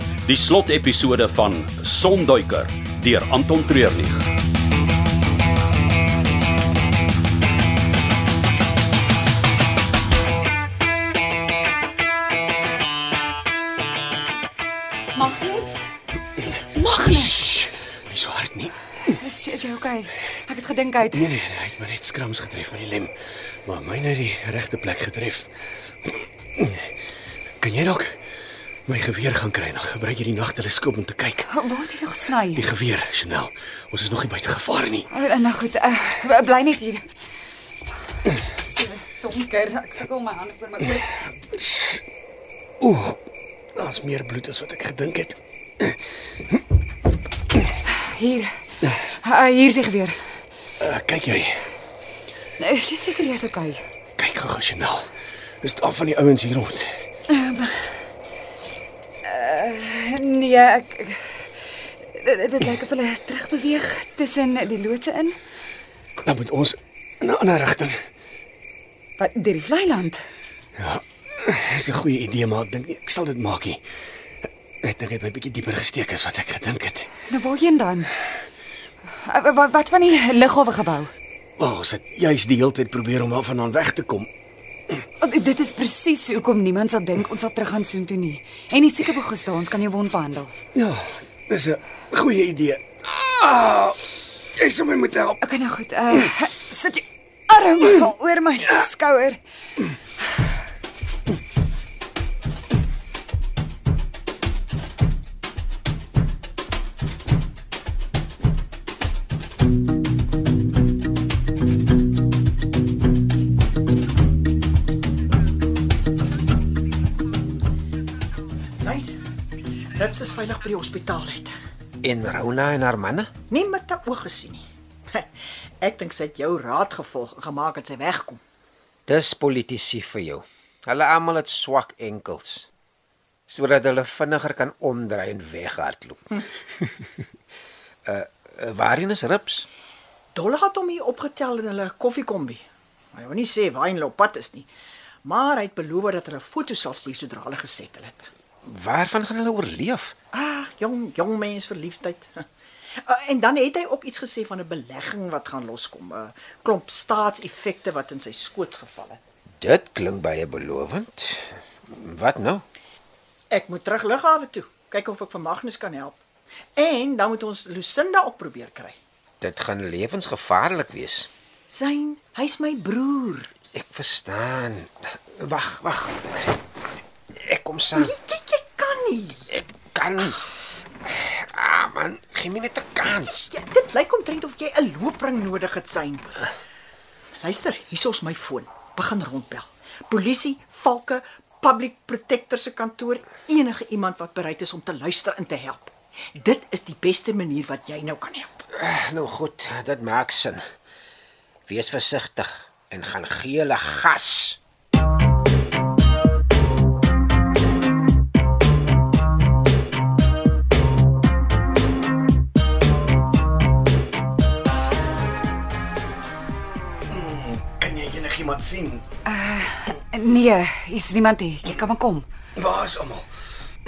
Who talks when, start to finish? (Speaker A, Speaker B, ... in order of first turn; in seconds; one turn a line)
Speaker A: 0.3-2.4
Speaker B: 15.1-15.8
Speaker C: 16.5-19.1
Speaker B: 16.7-17.4
Speaker B: 19.1-21.3
Speaker C: 21.1-23.1
Speaker C: 23.6-25.5
Speaker C: 26.0-26.9
Speaker C: 27.6-28.1
Speaker C: 28.9-31.4
Speaker B: 31.5-32.6
Speaker C: 32.5-35.1
Speaker B: 35.1-37.0
Speaker B: 38.1-41.3
Speaker C: 41.5-42.0
Speaker C: 42.8-43.2
Speaker C: 43.7-46.6
Speaker B: 47.8-50.1
Speaker C: 50.8-51.6
Speaker B: 52.6-53.8
Speaker C: 54.2-55.1
Speaker C: 55.6-57.0
Speaker B: 57.3-57.9
Speaker B: 59.2-65.4
Speaker C: 66.2-68.0
Speaker B: 69.2-70.2
Speaker C: 70.8-73.8
Speaker C: 74.8-77.1
Speaker B: 77.3-78.1
Speaker B: 79.2-81.1
Speaker C: 81.6-84.3
Speaker B: 85.2-90.5
Speaker C: 90.7-95.4
Speaker B: 95.4-99.4
Speaker D: 118.8-119.1
Speaker D: 119.9-121.5
Speaker E: 122.0-123.3
Speaker D: 123.5-125.3
Speaker D: 125.8-128.4
Speaker E: 129.1-132.7
Speaker E: 133.5-137.1
Speaker E: 138.1-139.7
Speaker D: 140.3-142.6
Speaker D: 143.1-144.7
Speaker D: 145.2-148.3
Speaker E: 148.7-150.1
Speaker D: 150.3-152.4
Speaker D: 153.0-159.2
Speaker E: 159.6-162.6
Speaker D: 163.5-166.2
Speaker D: 166.8-168.9
Speaker E: 169.4-171.3
Speaker D: 171.7-173.5
Speaker E: 173.7-176.4
Speaker E: 177.3-178.1
Speaker D: 177.9-179.5
Speaker E: 179.9-180.4
Speaker E: 181.0-183.5
Speaker D: 183.2-186.5
Speaker D: 187.4-198.6
Speaker E: 198.7-200.6
Speaker E: 201.7-204.6
Speaker C: 217.1-219.0
Speaker B: 219.2-222.2
Speaker C: 222.6-223.3